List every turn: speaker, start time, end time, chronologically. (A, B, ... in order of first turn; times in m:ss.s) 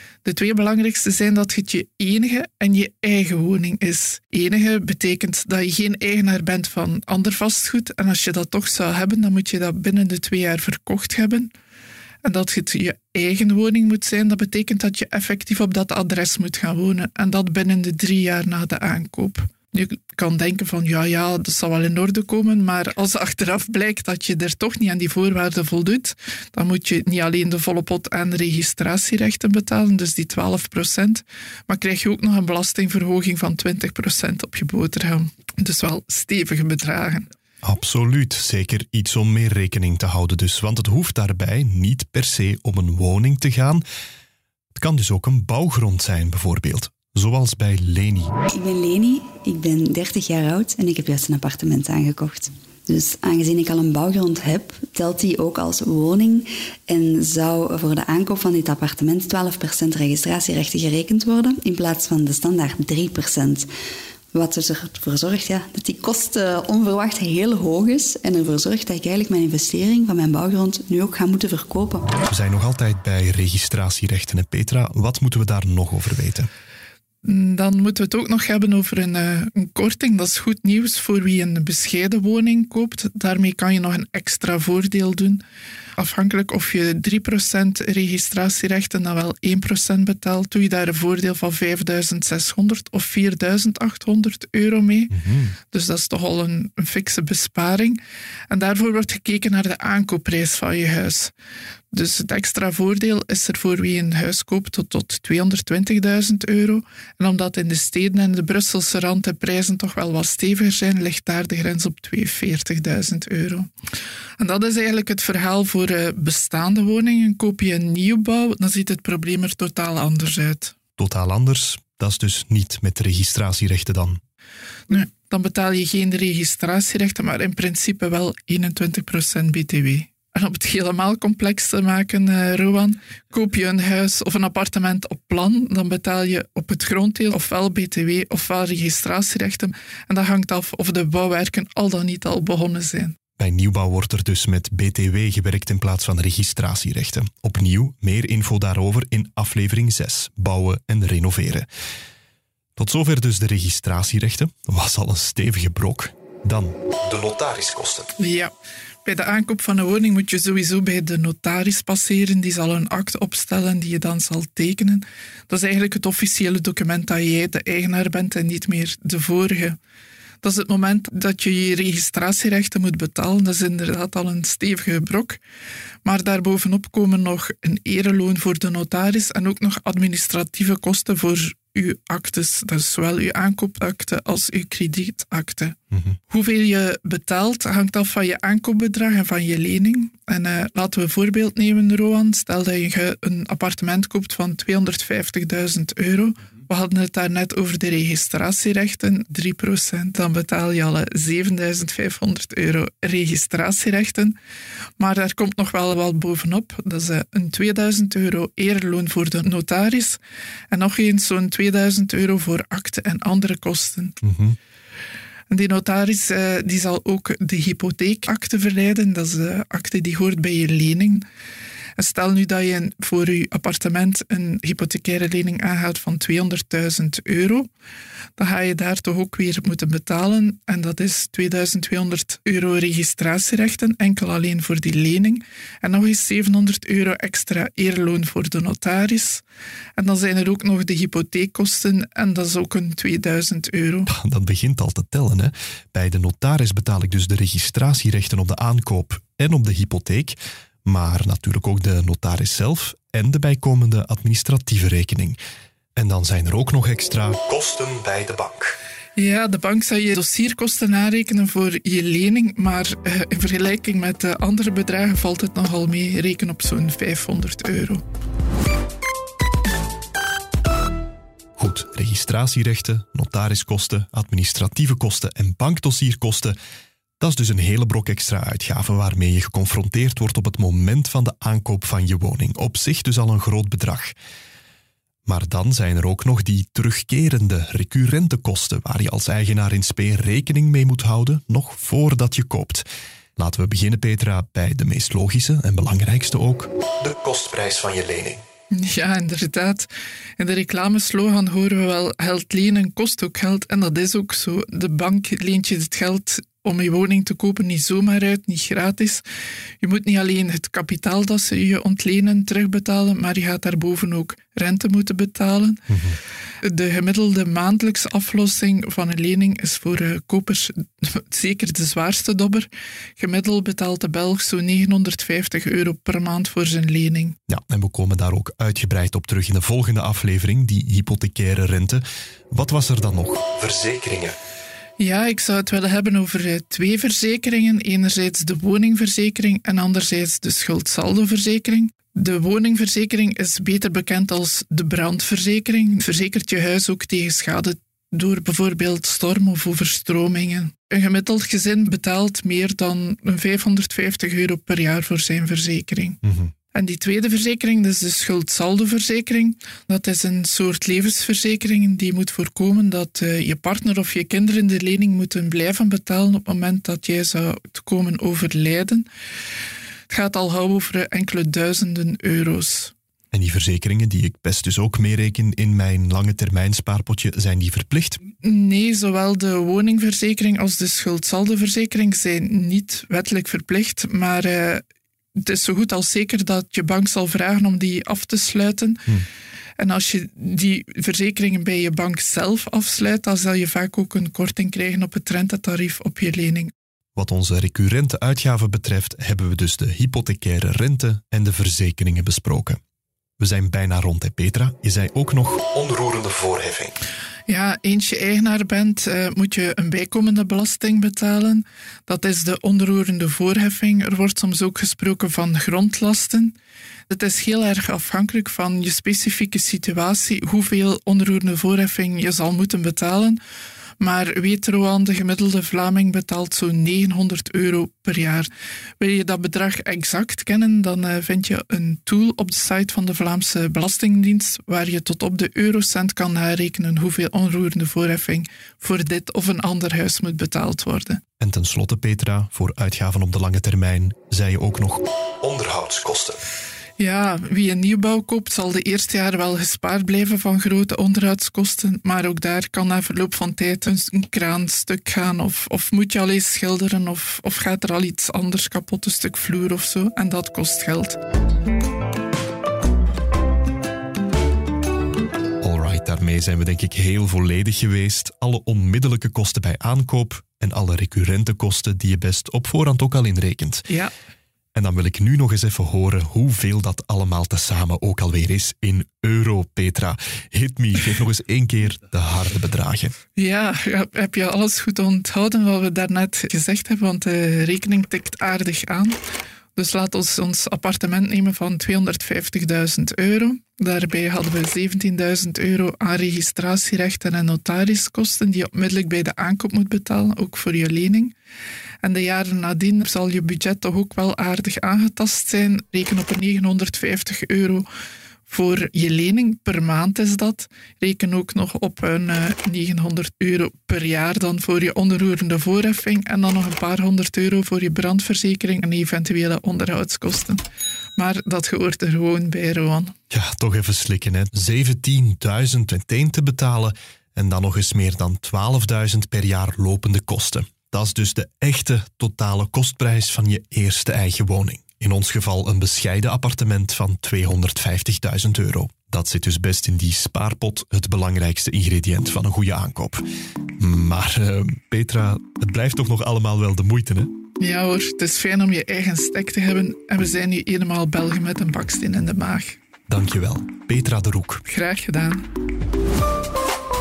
0:00.2-0:11.5 A
0:12.2-0:37.3 A
0:37.6-0:43.8 B
0:44.8-0:48.3 B
0:48.5-1:03.7 C
1:04.3-1:12.1 C
1:12.3-1:16.5 B
1:17.2-1:25.4 A
1:26.0-1:35.1 A
1:35.1-1:35.6 B
1:35.7-1:41.3 A
1:41.9-1:53.7 A
1:54.4-2:00.8 A
2:01.0-2:04.2 B
2:04.9-2:23.2 A
2:23.4-2:31.7 B
2:32.8-2:38.1 B
2:38.2-2:38.5 A
2:39.0-2:49.8 A
2:50.4-2:55.4 A
2:56.0-3:05.8 A
3:05.9-3:06.2 B
3:06.3-3:24.4 A
3:25.0-3:30.2 A
3:30.7-3:34.2 A
3:34.2-3:34.6 B
3:35.5-3:41.2 A
3:42.0-3:47.7 A
3:48.4-3:59.4 A
4:00.0-4:04.1 A
4:04.1-4:15.4 B
4:16.0-4:18.8 B
4:19.2-4:28.0 A
4:31.6-4:36.6 B
4:37.2-4:44.1 B
4:45.3-4:52.9 B
4:53.4-4:58.4 B
4:58.7-5:09.2 A
5:09.8-5:15.8 A
5:15.9-5:16.2 B
5:16.6-5:27.4 A
5:27.5-5:34.4 B
5:35.0-5:56.2 A
5:56.2-5:56.5 B
5:56.7-6:09.1 A
6:10.1-6:12.9 A
6:13.3-6:18.2 B
6:18.4-6:24.8 A
6:25.4-6:29.0 A
6:29.8-6:36.7 A
6:37.2-6:42.8 B
6:43.4-6:47.0 B
6:47.5-6:56.6 A
6:57.1-7:03.4 A
7:04.0-7:08.5 A
7:09.0-7:21.2 A
7:21.4-7:26.4 B
7:27.0-7:41.2 A
7:45.6-7:53.9 B
7:54.8-8:03.1 B
8:03.4-8:09.2 A
8:09.8-8:21.3 A
8:22.0-8:27.8 A
8:28.5-8:40.6 A
8:41.2-8:43.1 A
8:43.3-9:03.2 B
9:03.8-9:07.3 B
9:07.6-9:12.8 A
9:13.1-9:14.6 B
9:14.7-9:15.5 A